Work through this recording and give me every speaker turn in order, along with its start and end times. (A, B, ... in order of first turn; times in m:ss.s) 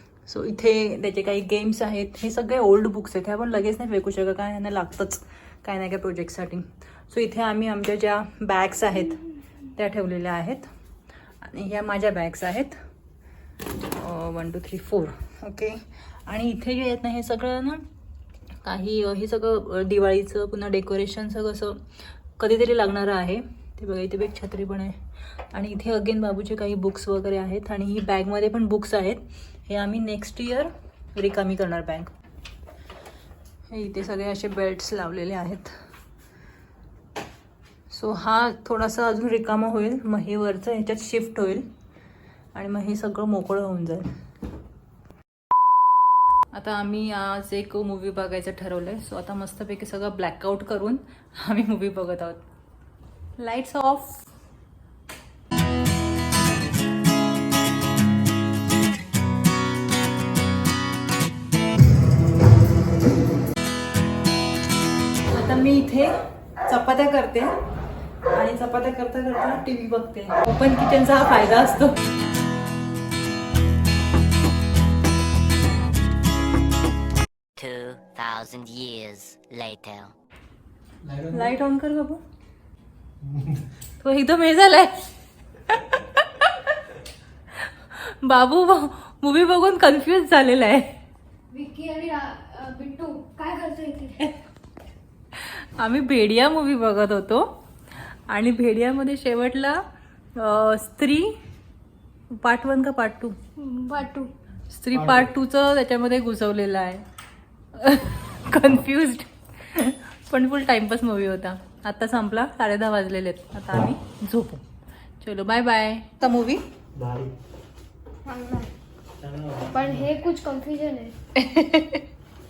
0:00.2-0:10.7 A
0:11.4-0:12.8 A
0:13.9-0:17.8 A
0:18.6-0:21.8 A
0:22.4-0:32.1 A
0:33.7-0:35.8 A
0:37.9-0:41.6 A
0:42.5-0:44.1 A
0:46.5-0:52.4 A
0:53.4-0:54.3 A
1:05.3-1:07.5 A
1:08.3-1:12.0 A
1:17.6-1:20.1 B
1:21.0-1:21.6 C
1:21.3-1:22.2 A
1:23.2-1:23.6 C
1:24.0-1:25.1 A
1:25.7-1:26.6 A
1:27.6-1:30.9 A
1:31.5-1:34.2 D
1:35.3-1:37.5 A
1:38.3-1:39.8 A
1:40.4-1:41.3 A
1:42.4-1:43.4 A
1:43.7-1:44.3 D
1:44.7-1:47.0 A
1:47.7-1:54.6 A
1:55.2-1:56.6 A
1:56.9-1:57.3 C
1:58.2-1:58.7 D
1:59.2-2:00.1 C
1:59.7-2:01.1 D
2:01.4-2:02.0 A